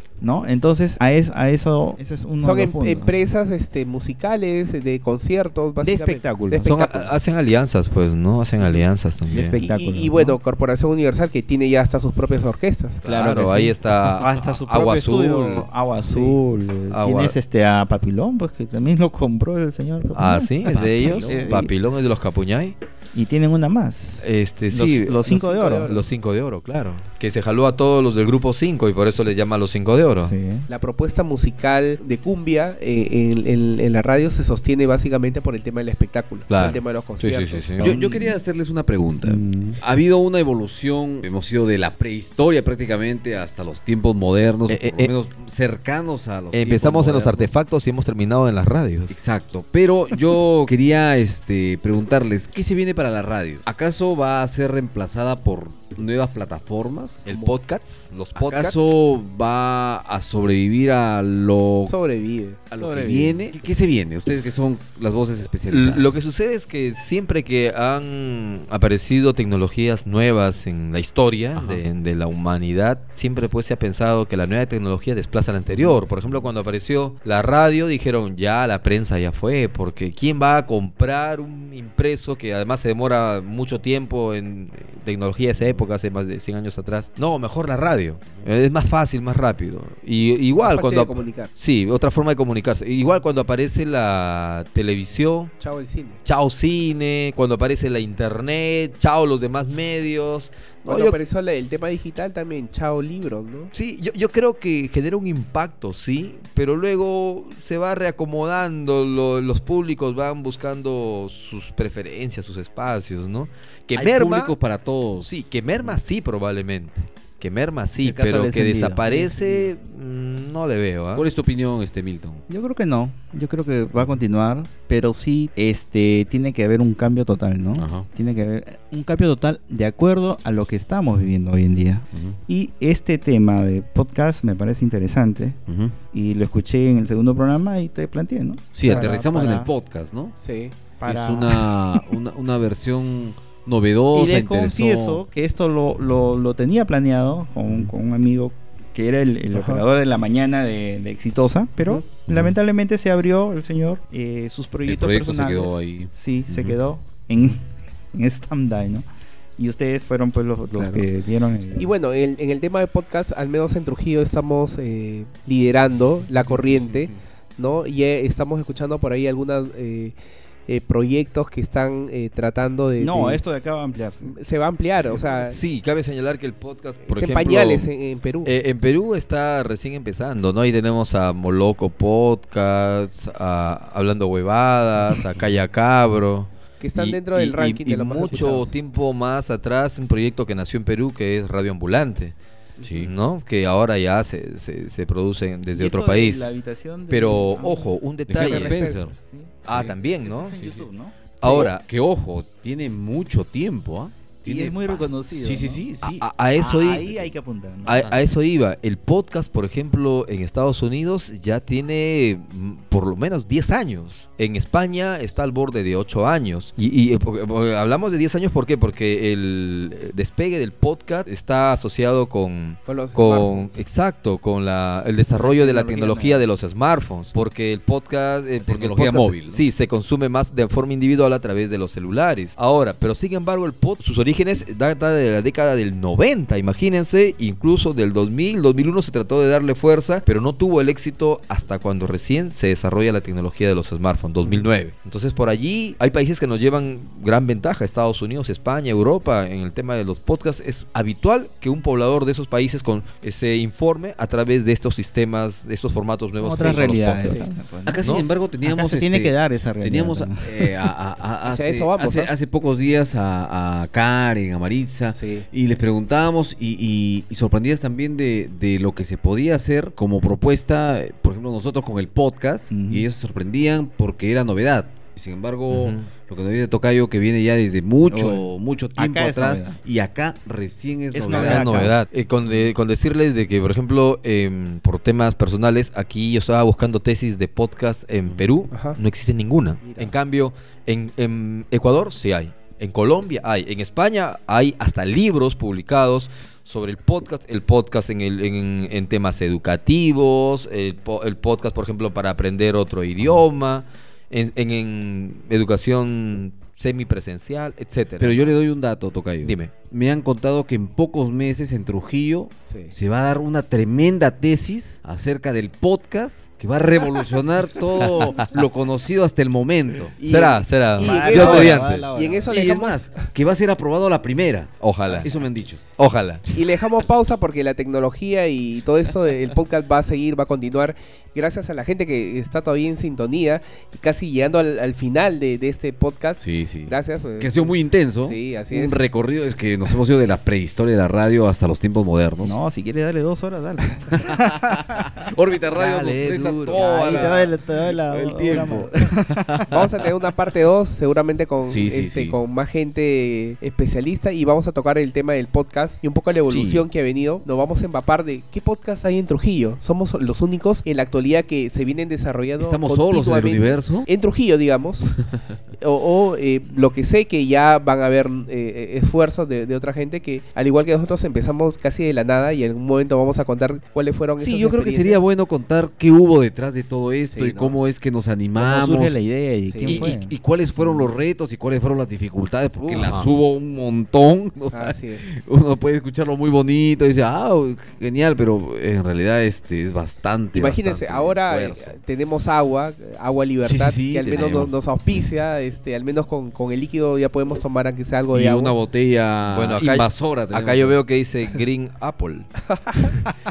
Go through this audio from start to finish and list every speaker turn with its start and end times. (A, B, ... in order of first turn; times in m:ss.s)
0:00.2-0:03.2 A
0:02.4-0:07.1 B
0:05.8-0:06.9 A
0:06.6-0:09.6 C
0:09.3-0:10.4 A
0:09.6-0:13.0 B
0:13.0-0:15.7 C
0:13.0-0:21.7 A
0:16.1-0:16.4 B
0:16.9-0:17.4 C
0:20.2-0:22.8 C
0:20.7-0:21.4 D
0:23.1-0:25.9 A
0:24.2-0:30.4 C
0:25.3-0:26.0 B
0:30.2-0:30.7 A
0:30.7-0:37.8 B
0:36.5-0:38.0 C
0:37.8-0:47.5 D
0:37.8-0:38.4 A
0:39.2-0:39.8 A
0:44.7-0:45.1 C
0:46.5-0:49.2 C
0:49.1-0:57.3 D
0:57.3-0:59.0 C
0:57.3-0:57.5 B
0:58.4-1:01.9 D
1:01.8-1:02.6 B
1:02.7-1:06.1 D
1:02.8-1:03.5 A
1:05.7-1:35.5 C
1:11.6-1:11.8 D
1:15.7-1:16.5 D
1:30.6-1:31.5 B
1:35.6-1:36.2 B
1:36.2-1:41.2 C
1:40.8-1:43.7 B
1:43.7-1:54.5 C
1:54.0-1:56.0 D
1:55.3-2:01.2 C
1:58.0-1:59.7 A
2:01.1-2:02.4 D
2:02.5-2:15.6 A
2:07.8-2:08.1 D
2:12.1-2:12.4 D
2:15.7-2:16.0 D
2:16.1-2:19.7 A
2:18.8-2:20.4 D
2:20.4-2:20.8 B
2:21.0-2:21.8 A
2:21.0-2:25.2 D
2:24.1-2:39.0 A
2:29.5-2:29.8 B
2:32.3-2:32.5 D
2:34.8-2:36.8 D
2:39.6-2:41.9 A
2:40.7-2:41.1 B
2:41.8-2:50.2 B
2:50.7-2:53.4 B
2:53.0-2:54.3 A
2:54.2-2:55.6 B
2:55.5-2:57.9 C
2:57.1-2:58.5 B
2:58.4-3:12.4 C
3:06.8-3:08.7 B
3:12.8-3:13.1 D
3:12.9-3:16.5 C
3:15.7-3:17.9 A
3:17.1-3:19.0 C
3:18.3-3:19.2 D
3:18.3-3:19.1 B
3:18.9-3:21.6 A
3:19.6-3:20.6 C
3:19.7-3:20.0 D
3:20.6-3:20.9 D
3:21.4-3:21.8 C
3:21.4-3:26.2 D
3:24.4-3:25.9 A
3:26.0-3:27.3 C
3:26.6-3:28.1 A
3:27.9-4:17.5 C
3:28.0-3:28.2 D
3:42.9-3:43.8 B
3:45.3-3:46.5 A
3:48.7-3:49.6 D
4:16.3-4:18.0 A
4:17.2-4:17.5 B
4:17.9-4:42.0 D
4:18.6-4:20.9 A
4:21.4-4:22.3 B
4:25.1-4:25.5 B
4:32.7-4:33.1 A
4:35.7-4:36.1 C
4:38.1-4:39.8 A
4:41.1-4:41.9 A
4:41.3-5:08.5 C
4:48.7-4:49.0 B
4:49.8-4:50.2 B
5:08.2-5:20.2 D
5:09.4-5:09.7 C
5:12.7-5:12.9 B
5:18.0-5:18.5 C
5:20.2-5:23.2 B
5:20.2-5:22.1 C
5:21.0-5:22.8 A
5:21.4-5:21.7 D
5:22.5-5:25.8 D
5:24.8-5:25.4 C
5:26.0-5:26.5 C
5:26.5-5:39.0 B
5:36.4-5:42.6 D
5:42.4-5:45.2 A
5:44.1-5:49.8 D
5:45.7-5:46.9 C
5:46.8-5:49.8 A
5:49.7-6:05.2 B
5:51.7-5:52.4 D
5:56.5-5:56.9 D
6:02.6-6:04.1 D
6:05.8-6:15.2 B
6:14.4-6:19.2 D
6:17.3-6:17.8 B
6:18.6-6:21.1 A
6:19.6-6:20.2 B
6:19.8-6:32.0 D
6:22.8-6:23.2 B
6:23.0-6:23.3 C
6:24.7-6:25.3 B
6:30.5-6:38.8 B
6:33.6-6:34.7 D
6:38.3-6:41.0 D
6:39.5-6:42.6 C
6:42.7-6:43.2 B